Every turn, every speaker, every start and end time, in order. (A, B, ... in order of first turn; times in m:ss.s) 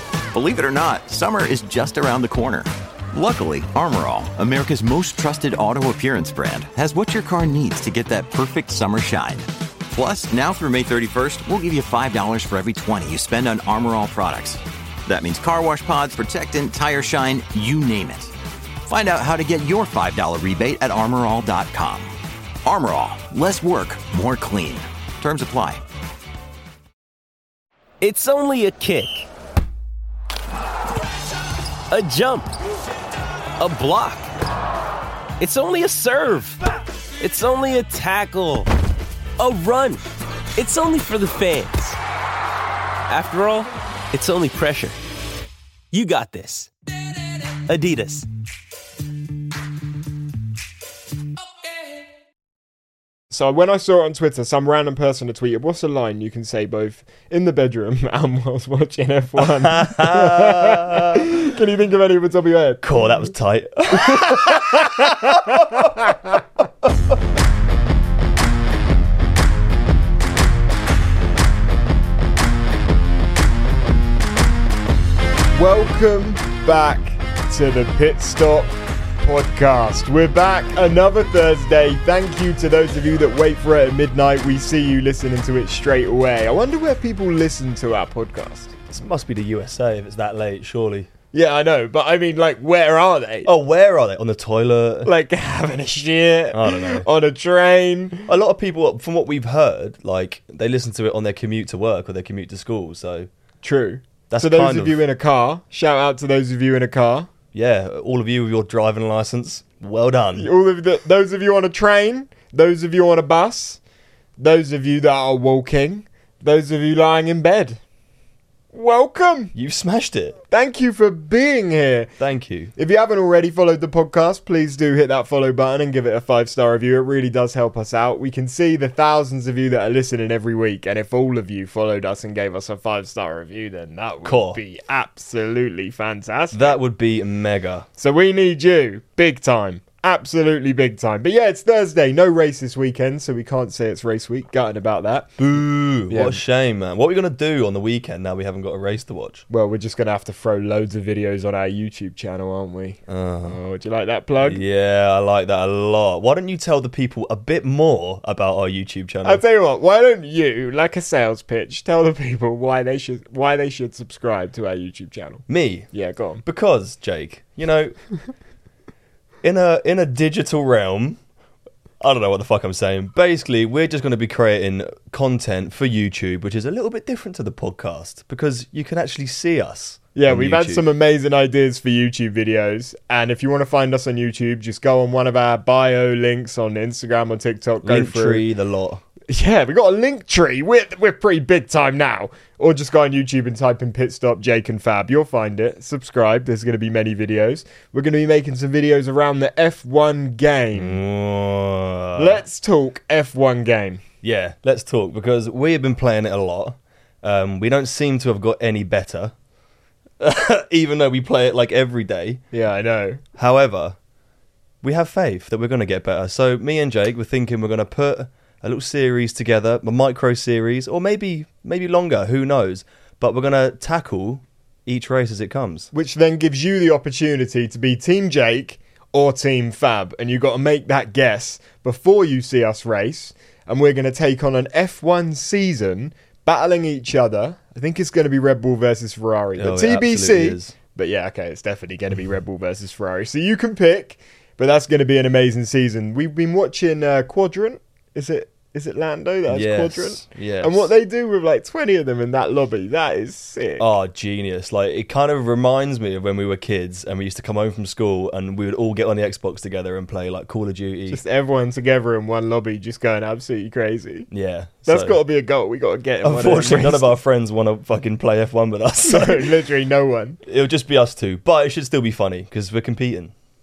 0:00.3-0:18.3 A
0:18.9-0:25.8 A
0:28.0-0:29.3 B
0:31.9-0:32.5 B
0:33.6-0:34.3 B
0:35.4-0:36.6 B
0:37.2-0:38.7 B
0:39.4-0:40.0 B
0:40.6-0:42.0 B
0:43.1-0:45.0 B
0:45.9-0:46.7 B
0:47.7-0:48.3 B
0:53.3-1:03.0 C
0:59.4-1:01.3 D
1:02.8-1:06.1 D
1:04.0-1:06.4 C
1:15.5-1:28.7 C
1:28.9-1:31.1 D
1:31.3-1:33.5 C
1:33.4-1:35.1 D
1:35.0-1:38.3 C
1:36.5-1:37.1 D
1:38.3-1:43.3 D
1:43.6-1:47.3 C
1:44.3-1:45.0 D
1:47.5-1:50.5 D
1:50.4-1:53.8 C
1:54.4-1:57.8 C
1:58.7-1:59.5 C
1:59.5-2:00.4 D
2:00.5-2:02.1 C
2:02.2-2:02.7 D
2:02.8-2:16.8 C
2:14.2-2:14.6 D
2:16.5-2:17.9 D
2:18.0-2:25.4 C
2:25.4-2:29.4 D
2:26.1-2:26.4 C
2:29.5-2:34.6 C
2:33.1-2:33.6 D
2:34.4-2:39.4 D
2:39.2-2:46.4 C
2:45.5-2:45.9 D
2:46.4-2:48.0 D
2:49.4-2:51.2 D
2:52.0-3:00.8 D
3:00.2-3:08.5 C
3:07.8-3:09.0 D
3:09.3-3:21.0 C
3:20.7-3:22.4 D
3:22.2-3:24.0 C
3:24.2-3:29.3 D
3:30.2-3:32.4 D
3:32.5-3:33.2 C
3:33.4-3:34.0 D
3:34.8-3:45.9 D
3:45.9-4:13.9 C
3:59.6-4:00.8 D
4:09.5-4:10.9 D
4:13.8-4:21.2 D
4:21.1-4:24.3 C
4:24.3-4:25.2 D
4:24.8-4:27.1 C
4:26.2-4:29.5 D
4:29.0-4:30.4 C
4:30.4-4:33.3 D